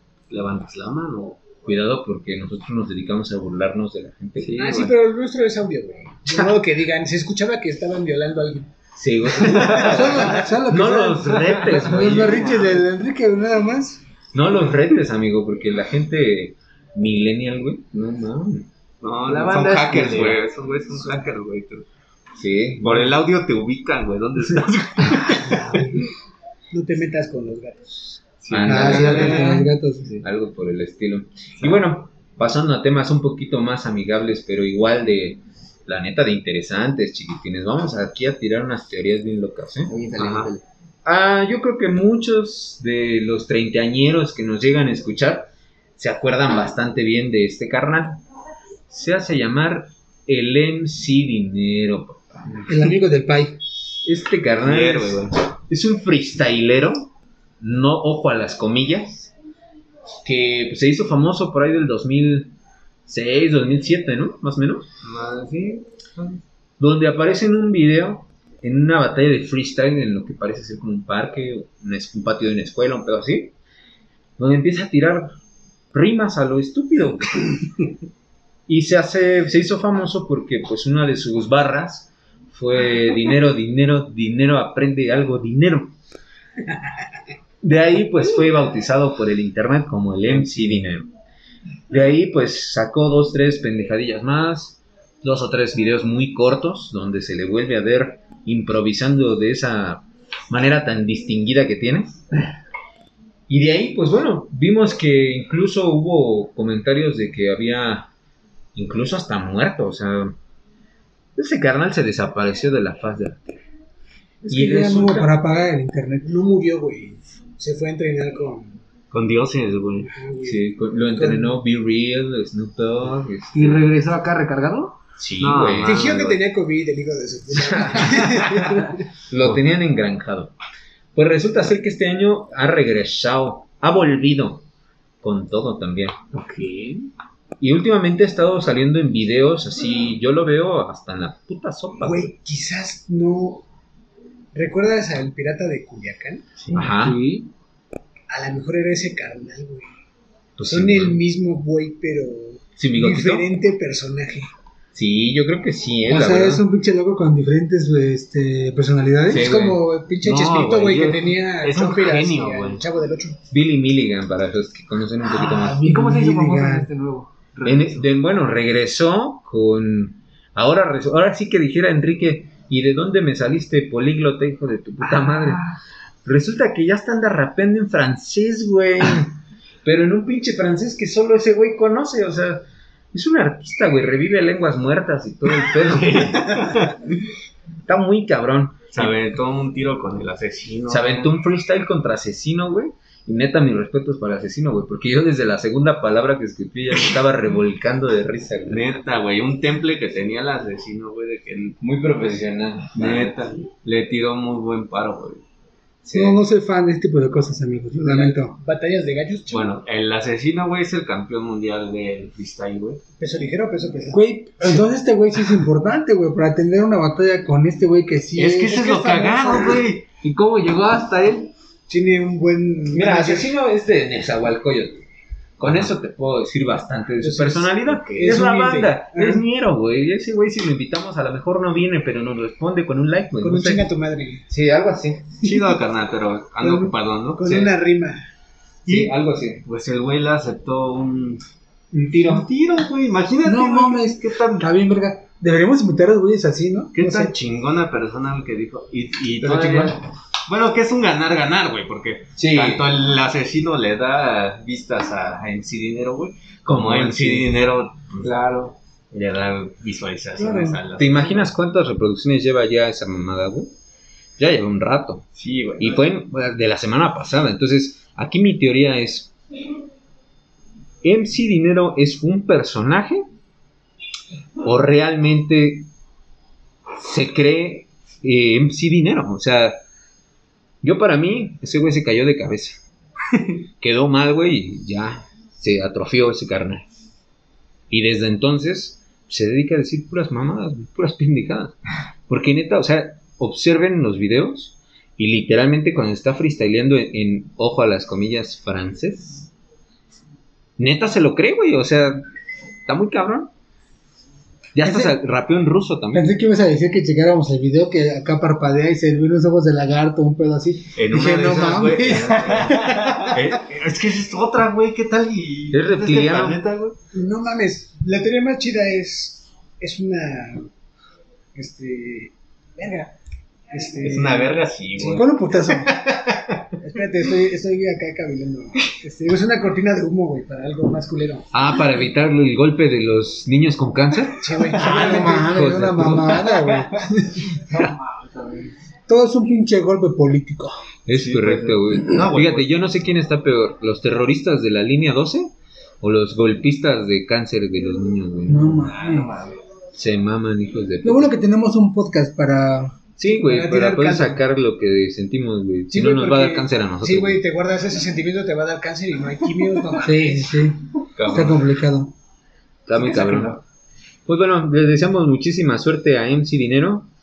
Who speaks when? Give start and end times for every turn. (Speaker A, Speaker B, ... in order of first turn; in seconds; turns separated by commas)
Speaker A: 0.3-1.6, Speaker B: 1.6-4.7, Speaker A: 4.4-5.0, Speaker C: 4.5-8.7, Speaker B: 8.9-12.7, Speaker C: 9.3-10.2, Speaker D: 9.9-14.0, Speaker B: 14.3-18.7, Speaker A: 19.0-21.9, Speaker E: 19.3-20.4, Speaker B: 22.4-23.1, Speaker A: 22.8-25.9, Speaker C: 26.7-28.2, Speaker A: 28.4-29.5, Speaker B: 28.5-29.5, Speaker D: 28.7-30.1, Speaker E: 29.0-29.7, Speaker B: 30.2-39.9, Speaker E: 39.9-40.6, Speaker A: 40.2-40.5, Speaker B: 41.0-48.2, Speaker B: 48.9-52.9, Speaker D: 52.7-53.6, Speaker B: 54.0-59.3, Speaker A: 54.6-55.4, Speaker B: 60.2-64.9, Speaker A: 65.0-66.4, Speaker B: 66.8-73.5, Speaker B: 74.4-75.3, Speaker B: 75.9-77.6, Speaker B: 78.7-86.0, Speaker B: 87.6-91.1, Speaker B: 91.9-102.2, Speaker B: 103.5-108.1, Speaker B: 108.8-110.3, Speaker B: 111.3-113.5, Speaker D: 114.5-116.3, Speaker B: 114.5-115.3, Speaker C: 116.2-118.8, Speaker A: 119.1-120.1, Speaker C: 120.1-121.6, Speaker B: 120.4-123.9, Speaker E: 123.5-125.0, Speaker B: 125.2-126.0, Speaker A: 125.4-126.4, Speaker C: 125.8-129.0, Speaker B: 129.3-130.5, Speaker B: 131.2-134.6, Speaker B: 135.2-136.2, Speaker E: 136.3-137.1, Speaker B: 137.6-142.3, Speaker C: 141.9-143.7, Speaker C: 144.5-146.4, Speaker A: 146.6-146.9, Speaker B: 146.7-147.2, Speaker E: 146.8-147.5, Speaker C: 148.3-149.9, Speaker B: 150.6-151.2, Speaker C: 150.6-154.5, Speaker B: 152.8-153.5, Speaker B: 154.9-156.7, Speaker D: 156.1-159.5, Speaker B: 159.3-159.8, Speaker C: 159.3-163.4, Speaker A: 160.2-162.8, Speaker B: 163.5-165.9, Speaker E: 165.3-168.1, Speaker D: 165.6-166.9, Speaker B: 167.6-175.6, Speaker E: 175.0-175.7, Speaker B: 176.2-179.3, Speaker B: 179.8-186.9, Speaker A: 185.7-187.0, Speaker B: 187.9-189.1, Speaker A: 188.9-191.3, Speaker B: 190.9-198.9, Speaker A: 198.7-201.8, Speaker B: 201.8-203.3, Speaker A: 202.9-205.4, Speaker B: 206.0-206.4, Speaker D: 206.1-208.6, Speaker C: 208.0-209.8, Speaker A: 209.5-213.0, Speaker C: 213.2-214.2, Speaker D: 214.1-218.9, Speaker A: 218.3-220.1, Speaker C: 218.7-219.8, Speaker E: 220.2-221.5, Speaker C: 221.9-223.5, Speaker B: 222.9-225.0, Speaker B: 225.6-233.8, Speaker A: 225.6-225.9, Speaker C: 227.2-229.4, Speaker A: 228.1-228.3, Speaker C: 233.4-234.4, Speaker B: 234.5-235.5, Speaker A: 235.4-237.7, Speaker C: 236.6-238.2, Speaker B: 238.9-239.6, Speaker A: 238.9-241.4, Speaker B: 241.9-242.5, Speaker A: 242.2-244.7, Speaker D: 243.4-247.3, Speaker A: 246.9-258.3, Speaker E: 249.4-249.9, Speaker B: 252.4-252.9, Speaker B: 256.7-257.5, Speaker E: 258.2-258.8, Speaker A: 259.1-261.5, Speaker D: 260.4-260.8, Speaker B: 260.9-263.7, Speaker B: 264.4-265.2, Speaker A: 265.4-266.1, Speaker B: 265.8-269.3, Speaker B: 271.0-273.2, Speaker B: 274.6-275.9, Speaker B: 277.0-279.8, Speaker B: 280.8-282.8, Speaker B: 283.8-286.9, Speaker B: 287.9-291.8, Speaker B: 292.3-299.5, Speaker B: 300.8-302.2, Speaker B: 302.9-303.5, Speaker B: 304.7-306.3, Speaker D: 304.8-305.1, Speaker D: 306.1-313.3, Speaker A: 311.0-317.0, Speaker B: 315.7-316.6, Speaker C: 317.1-320.7, Speaker C: 321.6-323.1, Speaker C: 323.7-324.6, Speaker A: 324.0-325.4, Speaker D: 325.0-325.9, Speaker A: 326.0-326.6, Speaker C: 326.8-331.5, Speaker B: 331.5-336.5, Speaker C: 334.4-335.7, Speaker D: 334.8-337.4, Speaker E: 336.4-337.1, Speaker E: 337.7-338.8, Speaker D: 339.1-340.8, Speaker B: 341.1-348.9, Speaker A: 341.1-342.9, Speaker D: 348.5-349.3, Speaker E: 348.7-349.6, Speaker B: 349.9-351.3, Speaker D: 351.0-352.9, Speaker B: 353.2-357.4, Speaker C: 353.3-354.4, Speaker C: 355.9-360.5, Speaker D: 360.0-362.1, Speaker A: 361.2-361.7, Speaker B: 362.9-363.6, Speaker B: 364.3-367.1